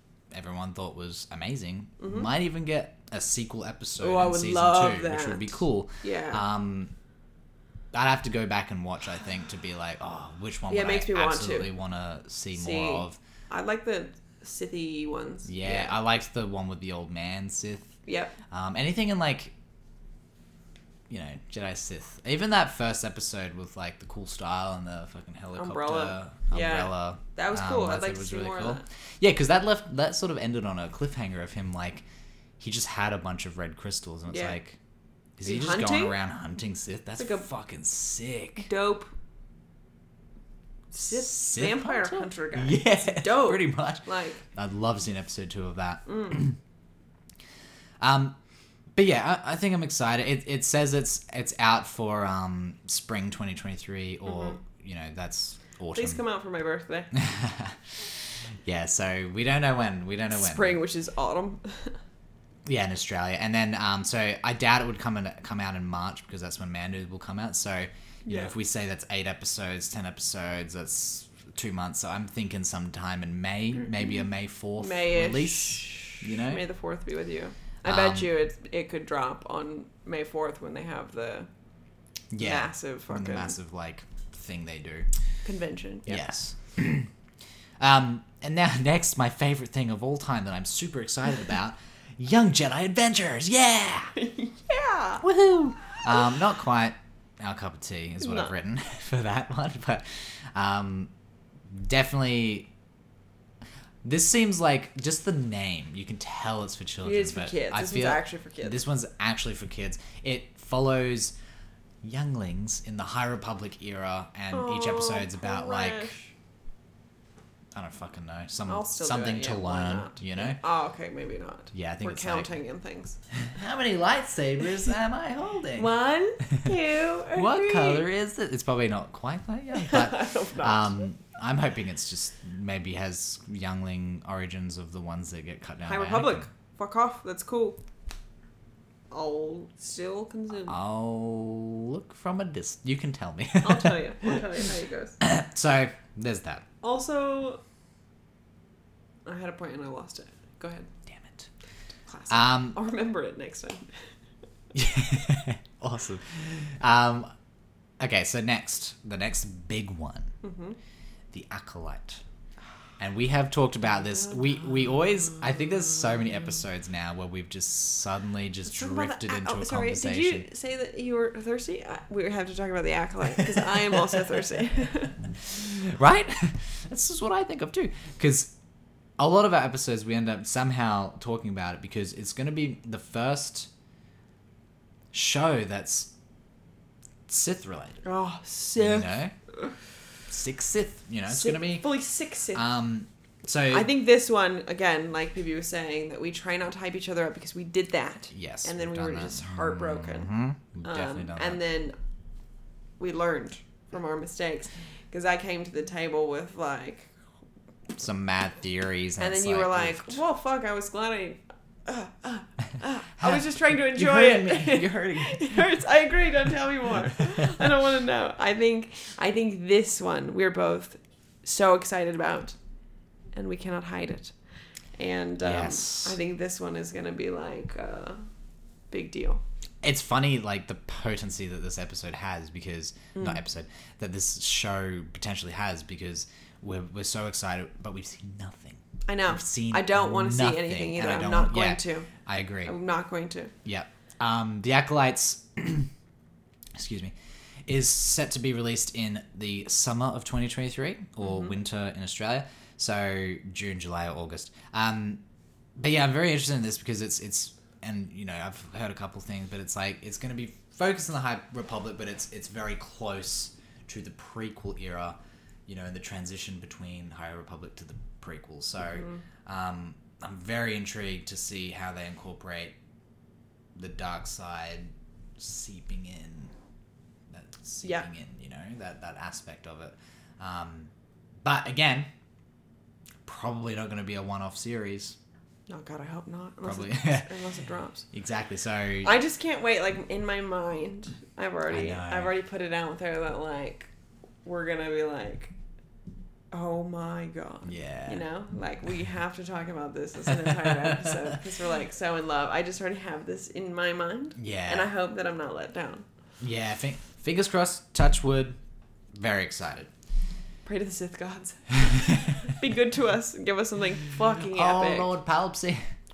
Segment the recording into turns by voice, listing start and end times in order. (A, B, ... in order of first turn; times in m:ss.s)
0:00.3-0:06.9 A
0:02.0-0:02.3 B
0:04.0-0:06.4 B
0:07.9-0:13.2 A
0:10.7-0:11.7 B
0:12.5-0:16.0 B
0:15.5-0:18.0 A
0:18.1-0:18.4 B
0:18.5-0:19.5 A
0:21.1-0:32.0 A
0:25.5-0:28.8 B
0:32.6-0:34.8 A
0:34.3-0:34.6 B
0:35.4-0:38.7 A
0:35.4-0:36.2 B
0:37.2-0:37.5 B
0:38.6-0:39.1 B
0:40.9-0:44.4 B
0:41.0-0:46.6 A
0:46.1-0:46.4 B
0:48.0-0:48.4 A
0:49.0-0:56.2 A
0:54.3-0:54.6 B
0:55.9-0:57.1 B
0:57.1-1:00.8 A
1:00.3-1:02.0 B
1:02.6-1:16.6 A
1:08.2-1:08.5 B
1:14.8-1:21.5 B
1:17.8-1:18.3 A
1:22.3-1:25.1 A
1:22.4-1:23.5 B
1:25.4-1:26.2 B
1:26.1-1:27.1 A
1:27.8-1:34.1 A
1:34.2-1:35.3 B
1:35.2-1:41.1 A
1:38.2-1:38.5 B
1:41.7-1:42.7 A
1:44.0-1:51.4 A
1:47.0-1:48.8 B
1:52.0-1:56.1 A
1:54.5-1:56.3 B
1:57.7-2:00.6 A
1:58.6-2:03.2 B
2:01.7-2:02.5 A
2:03.4-2:05.9 A
2:05.8-2:08.0 B
2:07.3-2:16.5 A
2:09.7-2:11.0 B
2:15.9-2:17.8 B
2:19.1-2:20.8 B
2:20.6-2:24.4 A
2:23.6-2:25.2 B
2:25.2-2:26.6 A
2:26.8-2:27.6 B
2:29.2-2:30.9 B
2:31.1-2:31.5 A
2:32.1-2:33.9 B
2:32.3-2:32.8 A
2:34.7-2:37.3 A
2:38.0-2:40.3 A
2:40.4-2:40.8 B
2:41.3-2:42.2 A
2:43.0-2:50.5 A
2:44.3-2:44.7 B
2:45.3-2:46.0 B
2:48.7-2:55.2 B
2:55.4-2:58.5 A
2:59.2-3:03.7 A
3:05.1-3:06.1 A
3:07.3-3:08.0 A
3:08.0-3:09.2 B
3:08.8-3:09.3 A
3:10.3-3:11.9 A
3:11.3-3:12.7 B
3:12.5-3:13.9 A
3:13.7-3:20.3 B
3:18.3-3:21.6 A
3:20.8-3:22.0 B
3:23.0-3:27.1 B
3:28.0-3:30.2 A
3:29.2-3:42.6 B
3:33.2-3:35.8 A
3:37.1-3:37.7 A
3:43.4-3:44.4 B
3:45.0-3:48.2 B
3:45.4-3:46.2 A
3:48.9-3:49.4 B
3:49.8-4:02.8 A
3:53.1-3:53.4 B
3:59.1-4:02.1 B
4:02.6-4:03.5 B
4:03.6-4:05.9 A
4:06.8-4:07.1 A
4:07.6-4:15.2 A
4:11.2-4:11.6 B
4:15.8-4:32.8 A
4:28.8-4:29.2 B
4:33.8-4:36.5 A
4:37.3-4:40.9 A
4:41.4-4:42.1 A
4:43.2-4:45.2 A
4:45.7-4:48.1 B
4:46.6-4:47.3 A
4:48.1-4:49.1 A
4:49.0-4:53.9 B
4:51.7-4:52.3 A
4:54.4-4:55.5 B
4:56.5-5:06.1 B
4:57.6-4:58.2 A
5:00.3-5:01.4 A
5:04.4-5:04.9 A
5:06.4-5:08.6 A
5:09.1-5:09.9 A
5:10.6-5:15.1 B
5:11.8-5:12.5 A
5:14.2-5:15.8 A